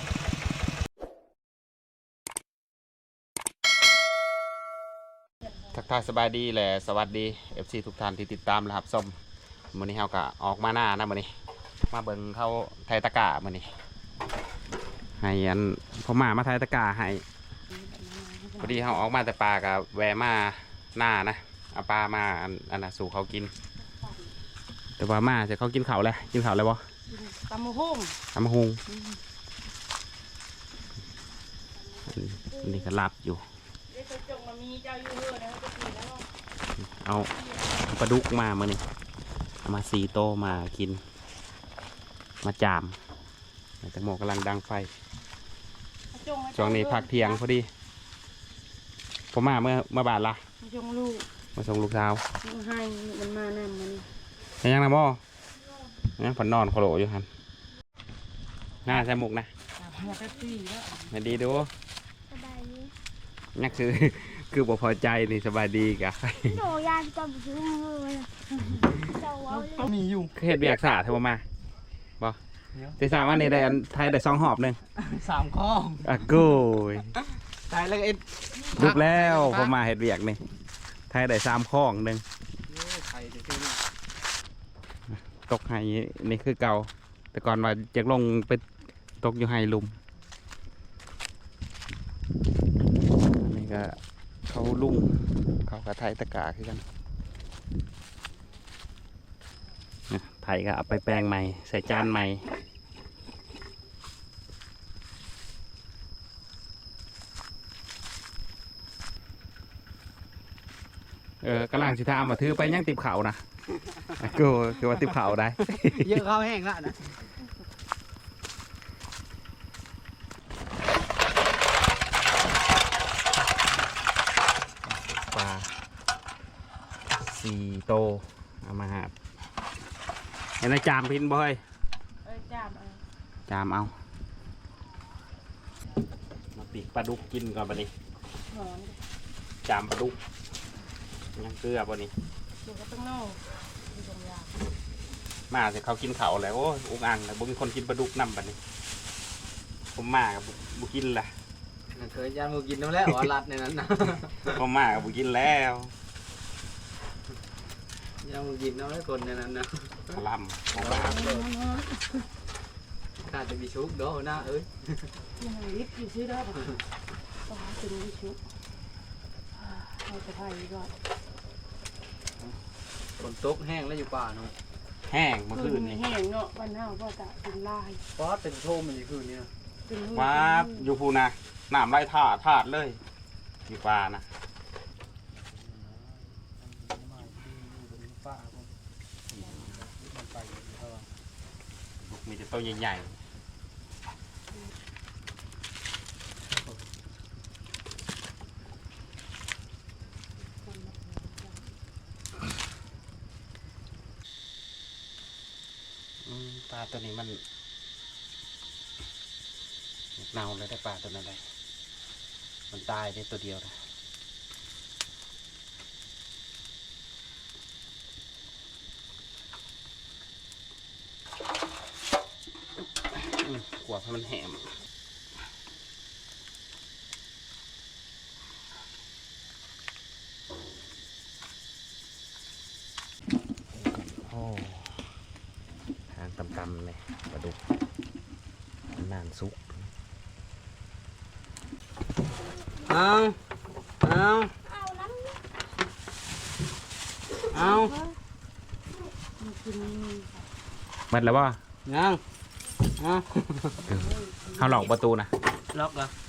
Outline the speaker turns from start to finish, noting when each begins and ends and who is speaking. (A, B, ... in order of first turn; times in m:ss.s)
0:05.7-0:09.1 A
0:09.7-0:11.3 A
0:11.9-0:13.7 A
0:15.2-0:17.2 A
0:17.7-0:18.8 B
0:18.6-0:23.5 A
0:25.0-0:26.9 A
0:27.1-0:28.2 B
0:28.3-0:28.8 A
0:28.9-0:29.2 B
0:32.1-0:33.4 A
0:33.9-0:36.3 B
0:36.8-0:38.8 A
0:39.6-0:41.0 A
0:42.4-0:43.0 A
0:43.8-0:44.9 A
0:46.1-0:47.4 B
0:46.5-0:47.7 A
0:49.3-0:50.4 A
0:50.6-0:51.3 B
0:51.6-0:52.2 A
0:52.4-0:54.1 B
0:54.6-0:55.2 A
0:56.2-0:57.3 A
0:58.8-0:59.5 A
0:59.8-1:01.1 B
1:01.1-1:01.7 A
1:02.3-1:02.9 C
1:03.6-1:06.7 A
1:06.5-1:08.3 C
1:09.1-1:09.9 C
1:09.8-1:10.3 D
1:10.3-1:11.4 A
1:13.0-1:14.8 A
1:15.0-1:16.1 D
1:16.0-1:17.2 A
1:17.7-1:19.7 D
1:18.7-1:20.4 A
1:21.1-1:22.2 A
1:22.7-1:23.8 D
1:25.1-1:28.6 A
1:29.2-1:30.0 A
1:33.4-1:34.0 A
1:34.5-1:36.8 A
1:40.1-1:42.5 A
1:51.4-1:53.4 A
1:54.1-1:56.2 A
1:55.9-1:57.0 D
2:05.1-2:05.8 A
2:07.1-2:09.1 A
2:10.6-2:11.6 A
2:12.2-2:13.0 B
2:13.5-2:13.9 A
2:16.6-2:17.9 A
2:18.5-2:19.0 B
2:19.6-2:20.2 A
2:21.4-2:22.1 A
2:22.6-2:24.5 B
2:25.5-2:28.6 A
2:29.9-2:31.3 A
2:31.9-2:34.6 D
2:34.4-2:35.9 A
2:38.2-2:40.2 D
2:40.1-2:41.2 A
2:40.8-2:41.5 D
2:41.1-2:42.2 B
2:43.2-2:45.1 D
2:45.4-2:46.7 B
2:47.5-2:48.4 B
2:49.7-2:50.9 B
2:53.2-2:54.5 D
2:55.1-2:56.0 A
2:55.5-2:58.0 B
2:58.2-2:59.5 D
2:59.9-3:00.9 B
3:00.1-3:03.0 A
3:03.7-3:04.3 A
3:06.6-3:08.7 D
3:09.9-3:11.0 D
3:12.0-3:13.2 A
3:20.6-3:21.6 B
3:26.2-3:27.4 A
3:30.2-3:31.4 A
3:32.7-3:33.7 A
3:43.1-3:44.7 A
3:53.7-3:55.0 A
3:56.1-3:57.6 A
3:58.9-3:59.9 A
4:02.9-4:03.4 D
4:04.0-4:04.5 D
4:04.7-4:05.3 C
4:07.5-4:07.9 D
4:07.6-4:08.2 B
4:09.4-4:10.4 B
4:11.1-4:11.6 A
4:11.8-4:12.2 D
4:13.0-4:13.9 D
4:13.9-4:15.3 A
4:13.9-4:14.9 B
4:15.7-4:16.1 D